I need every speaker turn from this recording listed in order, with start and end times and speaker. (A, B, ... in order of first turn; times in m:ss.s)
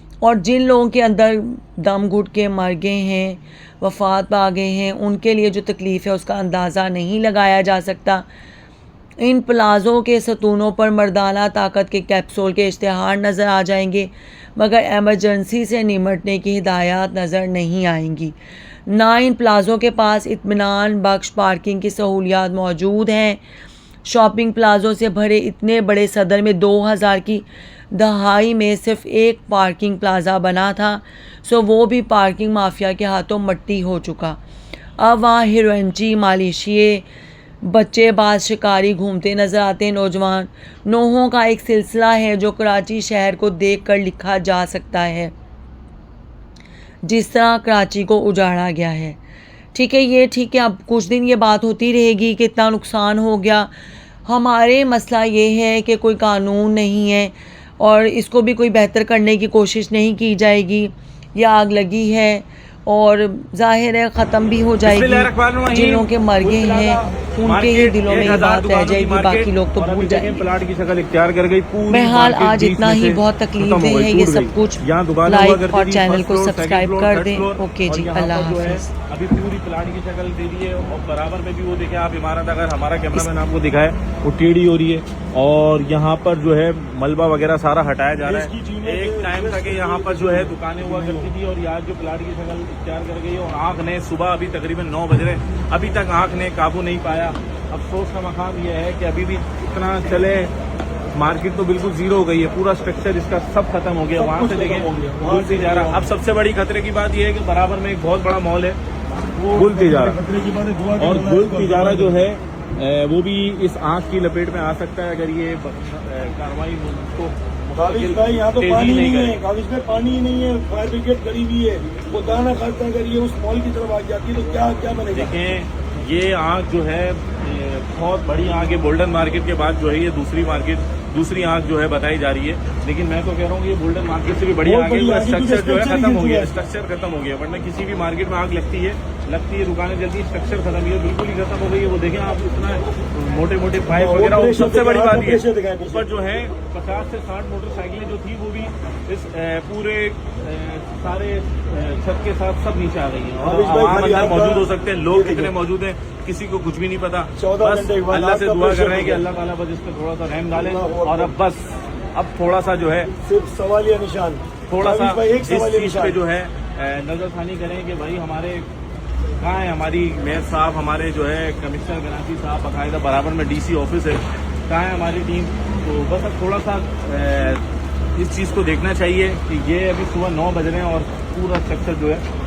0:00.2-0:08.2 A
0:09.2-0:18.3 A
0:18.9-0:23.4 A
0:24.0-0:34.4 A
0:35.0-0:37.0 A
0:37.6-0:45.3 A
0:47.0-0:49.2 A
0:49.7-0:53.7 A
0:54.2-1:10.5 A
1:04.8-1:40.5 B
1:11.9-1:18.9 A
1:28.2-1:31.3 C
1:41.1-1:48.8 B
1:44.1-1:46.1 C
1:49.4-1:50.2 B
1:49.5-1:52.2 C
1:51.0-1:59.4 B
1:57.8-2:05.4 C
2:05.1-2:43.1 B
2:14.6-2:16.5 C
2:23.9-2:26.0 C
2:33.4-2:35.5 C
2:37.4-2:39.2 C
2:40.5-2:41.3 C
2:43.2-2:46.2 C
2:44.7-2:48.7 B
2:49.4-2:57.6 B
2:58.2-3:02.2 B